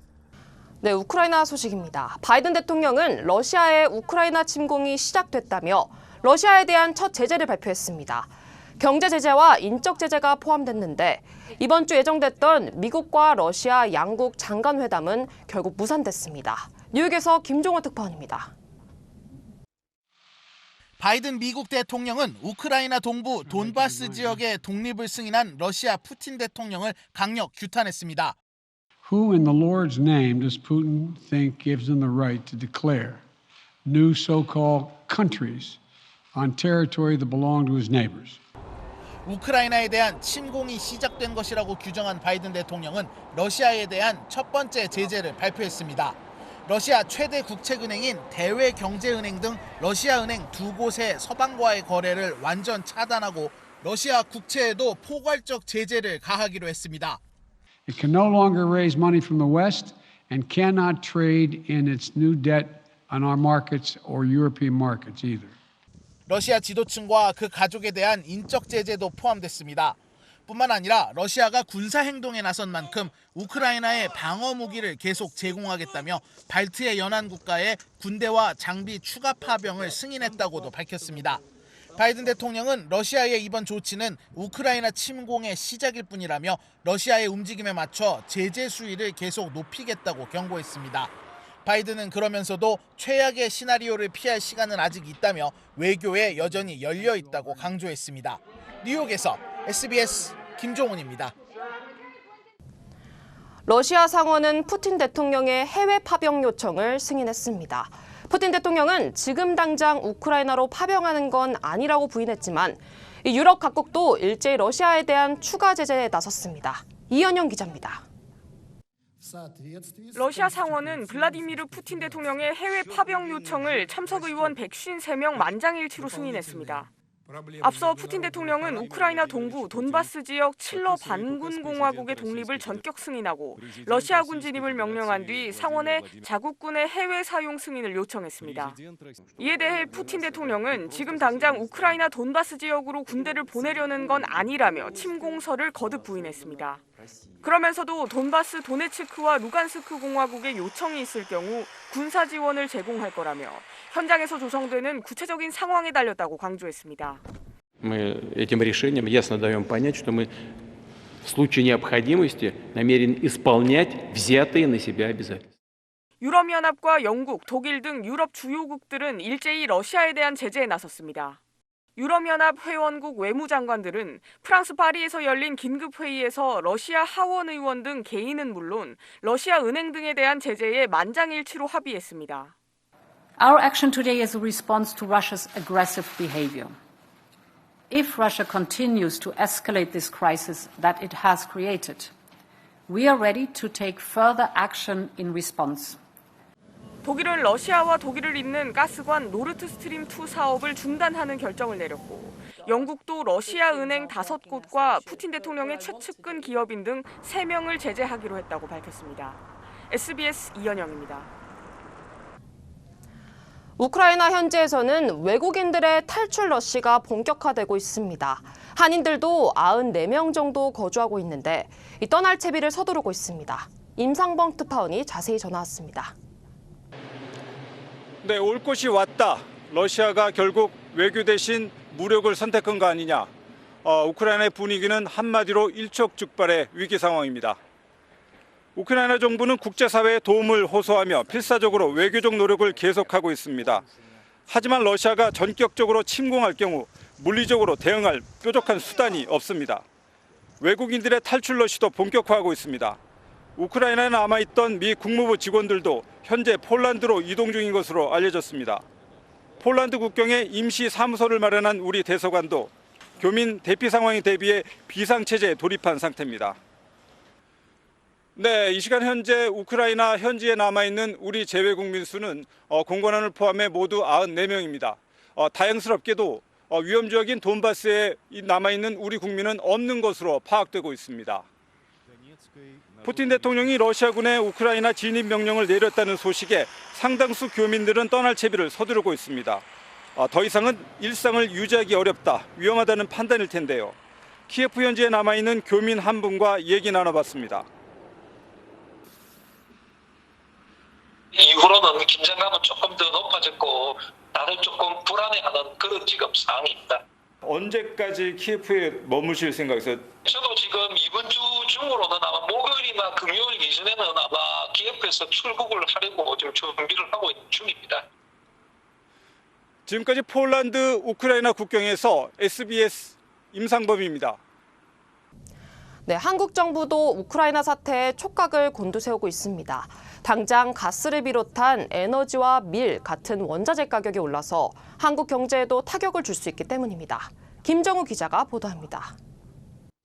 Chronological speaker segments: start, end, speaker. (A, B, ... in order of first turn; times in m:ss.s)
0:00.8-0:18.5 A
0:21.0-0:28.3 B
0:23.4-0:24.4 C
0:29.0-0:33.2 C
0:33.8-0:35.8 C
0:36.3-0:38.4 C
0:39.2-0:57.2 B
0:57.9-1:05.5 C
1:06.3-1:21.4 B
1:21.9-1:31.1 B
1:31.6-1:41.3 B
1:43.7-1:58.0 A
2:00.1-2:06.9 D
2:07.6-2:18.8 D
2:19.4-2:26.8 D
2:27.4-2:37.2 D
2:37.8-2:40.5 E
2:41.2-2:45.5 E
2:46.2-2:51.4 D
2:52.0-3:02.5 D
3:03.4-3:06.8 F
3:07.9-3:12.1 F
3:12.9-3:16.0 F
3:17.0-3:31.3 D
3:33.8-3:46.2 A
3:48.2-3:53.3 G
3:53.8-3:57.6 G
3:58.8-4:03.8 G
4:04.5-4:09.8 G
4:10.6-4:13.0 G
4:13.6-4:18.8 G
4:19.6-4:26.6 G
4:28.4-4:41.5 G
4:43.0-4:49.6 G
4:50.2-4:54.0 G
4:54.5-4:57.7 G
5:01.3-5:07.0 H
5:07.4-5:10.1 G
5:10.2-5:18.0 H
5:19.8-5:24.4 G
5:26.0-5:39.2 A